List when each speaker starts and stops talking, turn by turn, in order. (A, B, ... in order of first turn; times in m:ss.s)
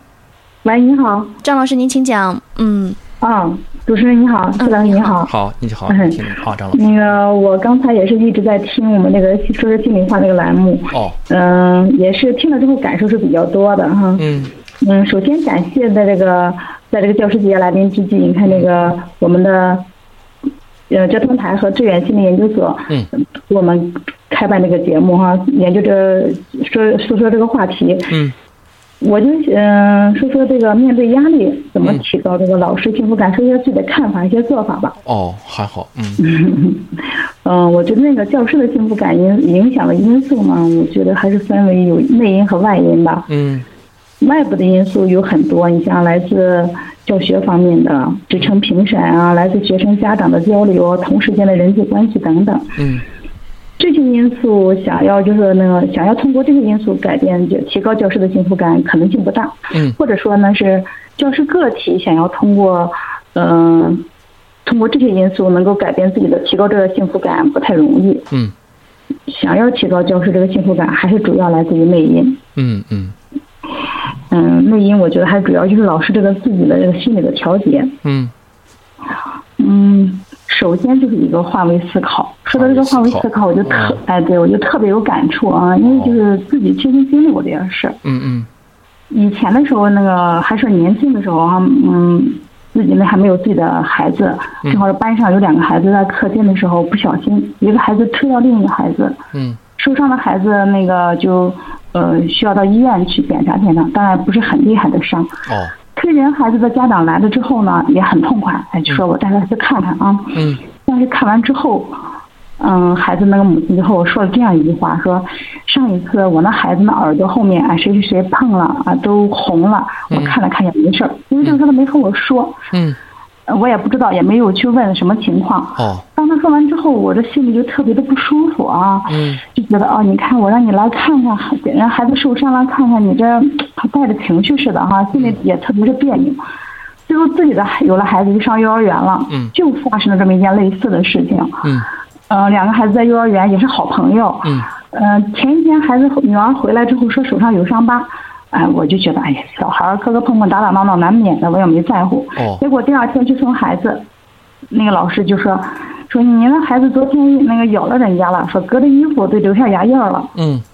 0:00.6-0:01.4 A
0:01.4-0:03.0 B
0:03.2-0:05.3 A
0:04.6-0:05.2 B
0:05.2-0:07.2 C
0:05.9-0:06.2 A
0:06.7-0:19.9 A
0:10.9-0:11.2 C
0:14.2-0:14.5 C
0:20.9-0:28.2 A
0:28.1-0:28.3 C
0:29.0-0:35.0 A
0:35.0-0:36.2 C
0:36.2-0:43.3 A
0:43.3-0:43.6 C
0:44.2-0:52.7 A
0:52.8-0:53.0 C
0:53.8-1:04.0 A
1:04.6-1:08.3 A
1:09.3-1:12.4 A
1:12.6-1:13.1 C
1:14.3-1:18.0 A
1:18.0-1:18.3 C
1:19.6-1:28.0 A
1:22.5-1:24.0 C
1:25.8-1:26.2 C
1:28.0-1:28.5 C
1:29.1-1:39.2 A
1:39.3-1:39.6 C
1:39.8-1:45.3 A
1:45.5-1:45.8 C
1:45.9-1:52.0 A
1:50.3-1:50.6 C
1:52.6-2:02.6 A
2:00.1-2:00.4 C
2:02.7-2:03.0 C
2:03.5-2:16.4 A
2:05.8-2:06.0 C
2:09.1-2:09.4 C
2:17.1-2:21.7 A
2:22.3-2:34.0 A
2:32.4-2:32.6 C
2:34.7-2:40.3 A
2:40.4-2:40.6 C